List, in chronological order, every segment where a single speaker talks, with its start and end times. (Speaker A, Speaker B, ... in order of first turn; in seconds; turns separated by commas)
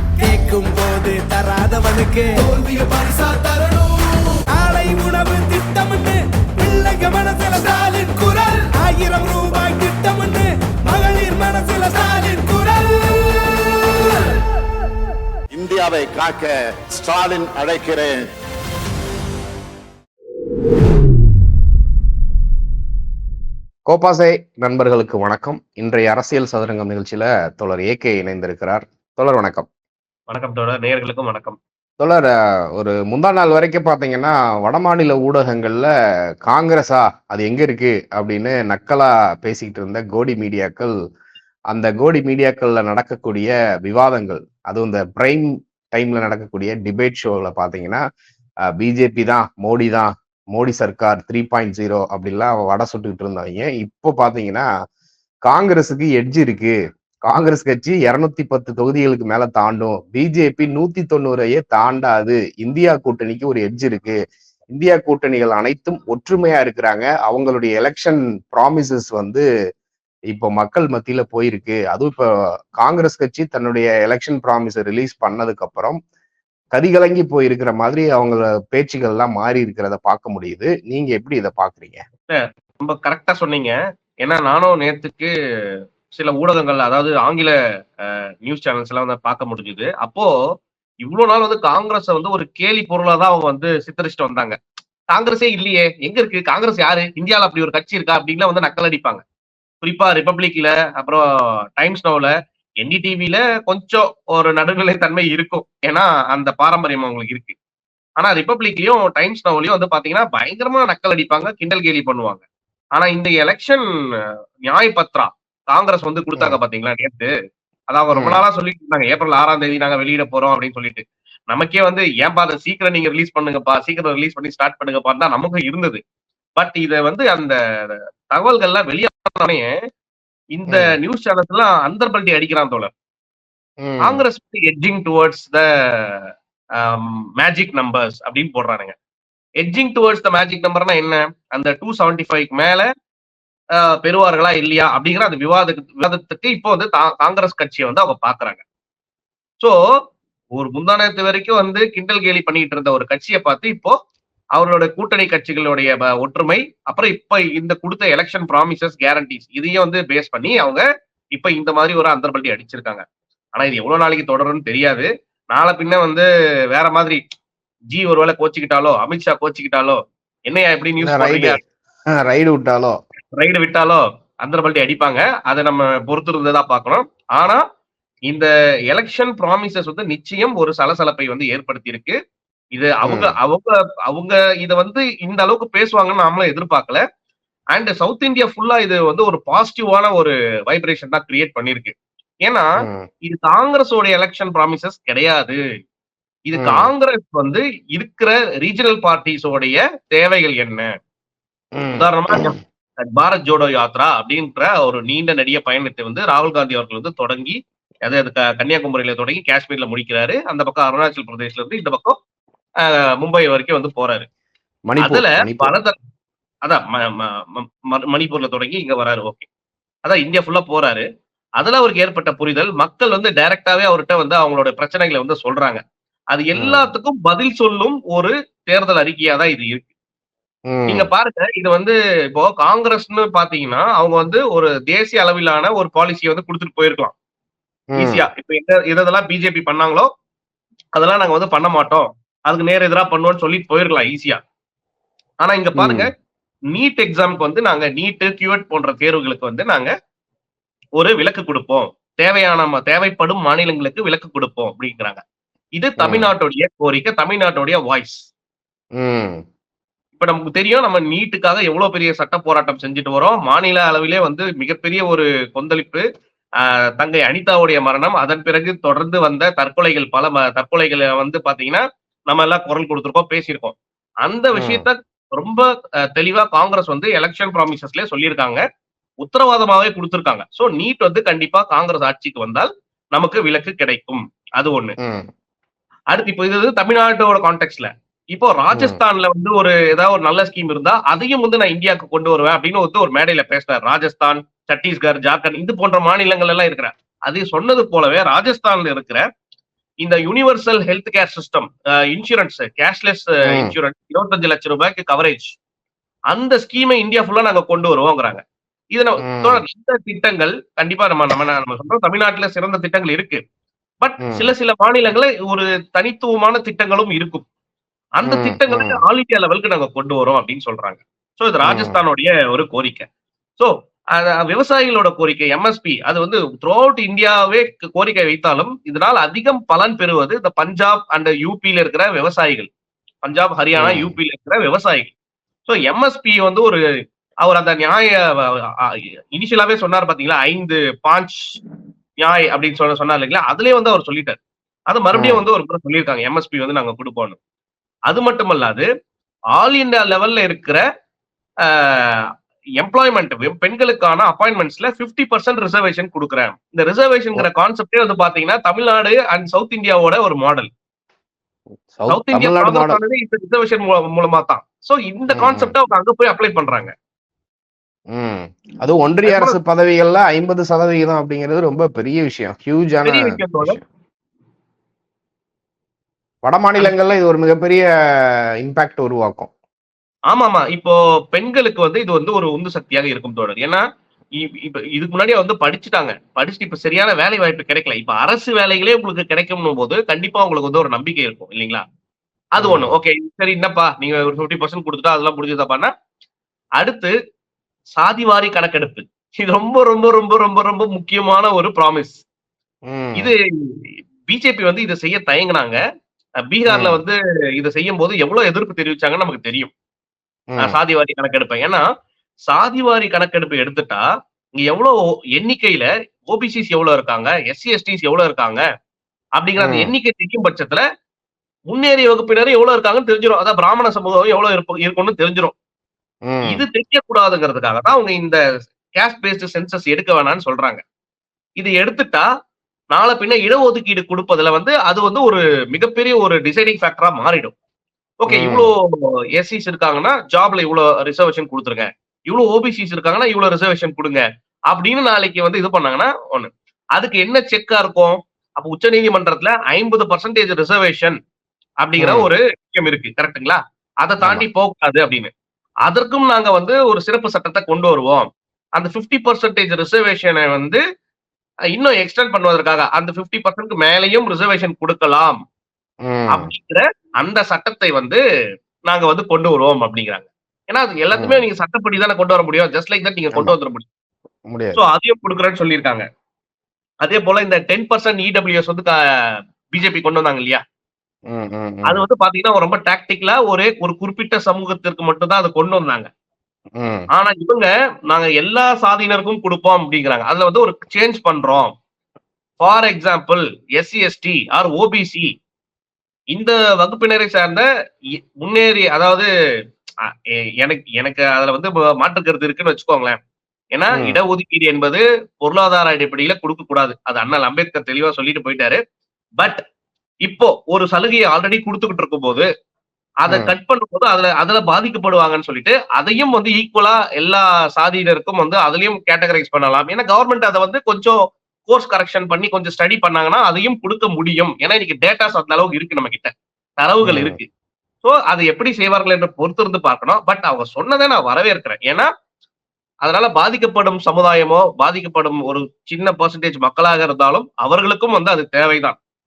Speaker A: 0.2-2.4, Speaker B: 2.4-4.4, Speaker A: 4.5-13.9, Speaker C: 15.5-18.2, Speaker D: 23.9-29.7, Speaker E: 30.3-31.6, Speaker D: 32.0-35.9, Speaker D: 36.4-40.9, Speaker D: 41.7-48.0, Speaker D: 48.7-54.7, Speaker D: 55.5-56.7, Speaker D: 57.3-64.2, Speaker D: 64.7-69.4, Speaker D: 70.3-72.2, Speaker D: 72.8-76.0, Speaker D: 76.7-82.0, Speaker E: 82.3-85.3, Speaker E: 86.1-87.5, Speaker E: 88.0-90.3, Speaker E: 91.0-94.6, Speaker E: 95.1-99.2, Speaker E: 99.8-101.2, Speaker E: 101.8-102.3, Speaker E: 102.8-107.5, Speaker E: 108.2-112.4, Speaker E: 113.0-113.8, Speaker E: 114.7-117.3, Speaker E: 117.9-126.0, Speaker D: 118.1-118.4, Speaker E: 126.6-127.5, Speaker E: 128.3-129.7, Speaker E: 130.6-132.9, Speaker D: 133.8-134.2, Speaker E: 134.0-136.2, Speaker E: 136.8-138.9, Speaker E: 139.6-142.9, Speaker E: 143.8-148.6, Speaker E: 150.6-153.9, Speaker E: 154.6-163.0, Speaker E: 163.6-167.2, Speaker E: 167.9-171.6, Speaker D: 171.0-171.6, Speaker D: 172.1-173.0, Speaker E: 173.4-177.6, Speaker E: 178.3-182.2, Speaker E: 182.8-187.0, Speaker D: 183.1-183.3, Speaker E: 187.7-192.7, Speaker D: 192.8-193.1, Speaker E: 193.3-195.6, Speaker E: 196.5-200.9, Speaker D: 196.6-196.9, Speaker D: 201.8-202.6, Speaker E: 202.0-212.2, Speaker E: 212.8-214.3, Speaker D: 214.9-215.7, Speaker E: 215.0-216.0, Speaker E: 216.7-219.5, Speaker E: 220.1-221.1, Speaker E: 221.6-229.8, Speaker D: 226.6-226.9, Speaker D: 230.7-231.1, Speaker E: 230.9-237.1, Speaker D: 237.9-238.3, Speaker E: 238.0-240.1, Speaker E: 240.9-244.4, Speaker E: 245.4-246.1, Speaker D: 245.8-246.1, Speaker E: 246.7-249.9, Speaker E: 251.0-255.2, Speaker E: 255.8-258.3, Speaker D: 256.0-256.3, Speaker D: 259.0-259.4, Speaker E: 260.2-266.0, Speaker E: 266.6-278.6, Speaker D: 274.6-274.9, Speaker E: 279.2-285.0, Speaker D: 285.0-285.3, Speaker E: 286.1-299.2, Speaker D: 288.7-289.0, Speaker E: 300.0-305.5, Speaker D: 303.5-303.7, Speaker E: 306.3-308.4, Speaker E: 308.9-313.4, Speaker D: 309.2-309.6, Speaker E: 314.0-317.4, Speaker D: 314.2-314.5, Speaker E: 318.2-323.1, Speaker D: 318.2-319.0, Speaker D: 321.6-322.0, Speaker E: 323.6-332.7, Speaker E: 333.2-335.1, Speaker D: 333.8-334.1, Speaker E: 335.7-336.8, Speaker E: 337.4-341.6, Speaker E: 342.2-344.4, Speaker E: 344.9-347.4, Speaker D: 345.1-345.4, Speaker E: 348.1-348.9, Speaker E: 349.6-350.8, Speaker E: 351.6-352.2, Speaker E: 352.8-360.7, Speaker D: 361.9-363.0, Speaker E: 362.1-366.9, Speaker D: 365.3-365.7, Speaker D: 368.1-373.8, Speaker E: 369.3-369.6, Speaker E: 373.1-373.8, Speaker D: 376.4-377.9, Speaker D: 378.6-379.5, Speaker E: 380.3-383.8, Speaker E: 384.4-391.8, Speaker E: 392.6-395.9, Speaker D: 392.6-392.9, Speaker E: 396.8-397.1, Speaker E: 398.0-402.2, Speaker D: 402.9-403.3, Speaker E: 404.3-405.8, Speaker E: 406.5-409.7, Speaker D: 406.7-407.0, Speaker E: 410.6-411.8, Speaker E: 412.5-414.0, Speaker E: 414.6-418.6, Speaker E: 419.4-420.8, Speaker D: 419.6-419.9, Speaker E: 421.7-425.5, Speaker D: 426.3-426.6, Speaker E: 426.5-428.4, Speaker E: 429.0-430.8, Speaker E: 431.6-432.2, Speaker E: 432.9-437.5, Speaker E: 438.2-451.2, Speaker D: 438.3-438.7, Speaker E: 451.8-455.3, Speaker D: 452.0-452.3, Speaker E: 455.9-460.8, Speaker E: 461.7-465.4, Speaker D: 466.0-466.5, Speaker E: 466.3-468.2, Speaker E: 468.9-473.9, Speaker D: 471.1-471.4, Speaker D: 474.5-474.8, Speaker E: 474.8-476.1, Speaker E: 477.0-478.9, Speaker E: 479.7-480.6, Speaker D: 481.3-482.0, Speaker E: 481.9-486.1, Speaker D: 486.8-487.1, Speaker E: 487.1-491.7, Speaker E: 492.6-495.3, Speaker E: 496.3-497.6, Speaker E: 498.4-499.3, Speaker E: 500.6-503.2, Speaker E: 503.7-508.8, Speaker D: 503.9-504.2, Speaker E: 510.2-512.5, Speaker E: 513.2-527.5, Speaker D: 527.0-527.4, Speaker E: 528.0-532.1, Speaker E: 533.0-539.0